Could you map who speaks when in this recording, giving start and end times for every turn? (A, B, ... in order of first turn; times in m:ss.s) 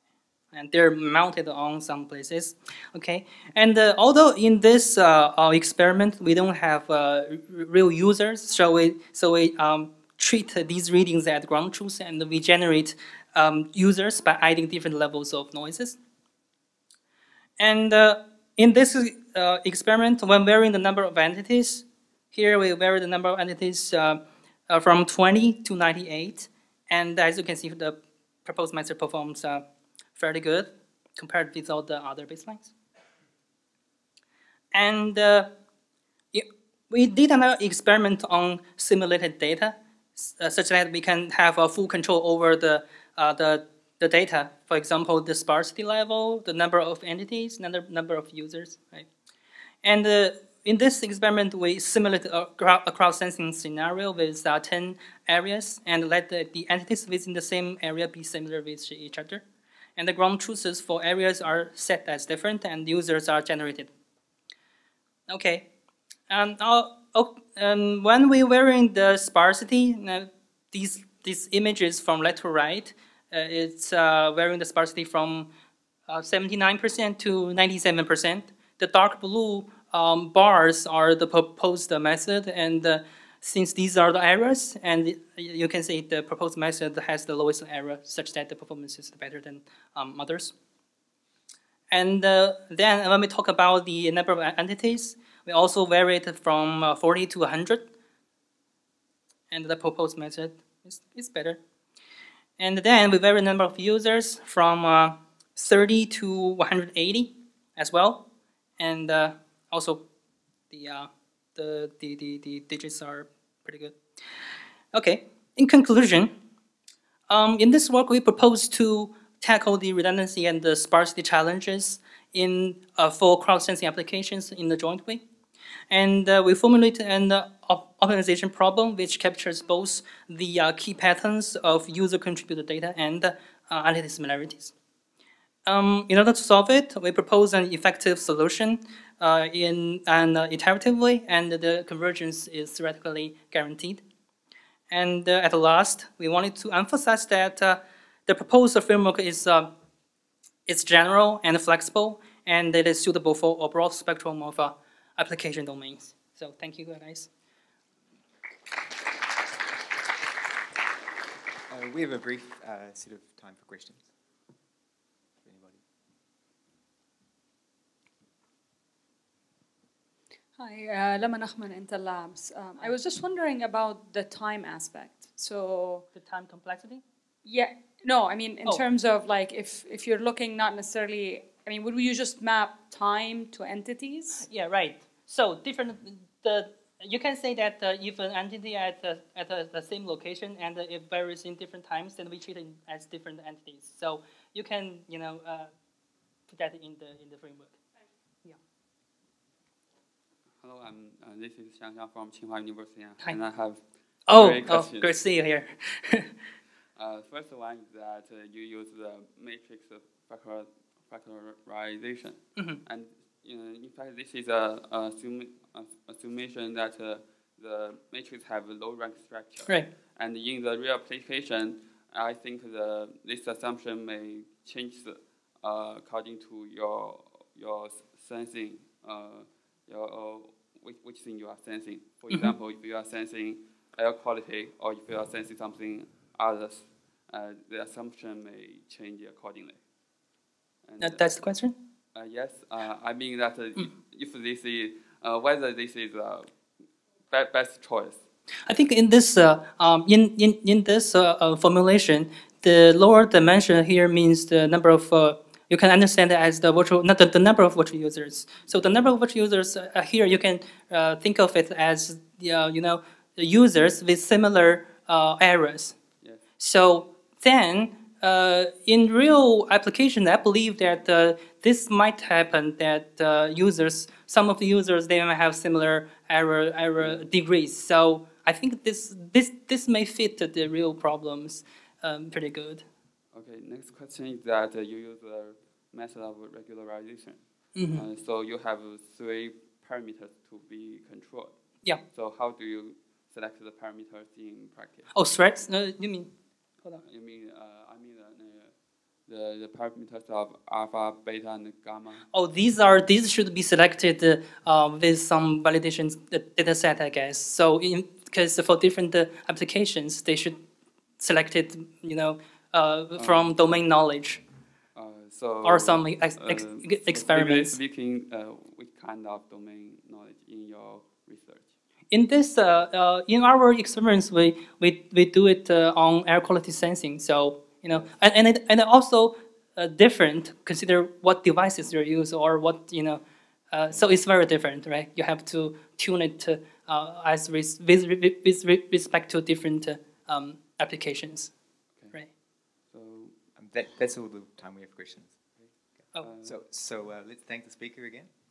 0:00.5-0:16.0 A
0:17.6-0:32.7 A
0:34.7-0:35.5 A
0:36.3-0:49.1 A
0:49.8-0:59.4 A
1:00.0-1:03.9 A
1:05.3-1:05.7 A
1:06.3-1:15.5 A
1:16.1-1:30.5 A
1:31.9-1:37.8 A
1:39.5-1:41.6 A
1:42.6-1:48.2 A
1:48.8-1:50.0 A
1:50.7-1:54.0 A
1:54.9-1:56.3 A
1:57.3-2:05.2 A
2:05.9-2:14.7 A
2:15.6-2:24.0 A
2:24.9-2:29.7 A
2:30.7-2:37.3 A
2:41.7-2:44.1 B
2:45.4-2:45.8 B
2:50.6-2:56.0 C
2:56.1-2:57.0 A
2:57.4-3:04.4 C
3:04.4-3:15.7 A
3:16.5-3:17.8 A
3:20.6-3:25.2 D
3:24.3-3:26.3 A
3:27.0-3:59.8 D
3:52.3-3:52.5 A
4:00.8-4:01.4 D
4:01.0-4:01.7 A
4:02.1-4:06.5 D
4:07.3-4:08.2 D
4:08.7-4:26.0 A
4:26.6-4:42.8 A
4:37.0-4:37.3 D
4:43.3-4:55.1 D
4:47.7-4:48.0 A
4:55.1-4:56.3 A
4:57.0-5:02.2 D
5:02.3-5:10.6 A
5:11.2-5:14.4 A
5:13.2-5:13.6 D
5:14.9-5:21.7 D
5:15.6-5:17.8 A
5:22.1-5:41.5 A
5:41.9-5:43.3 D
5:43.6-5:48.3 B
5:45.6-5:46.6 D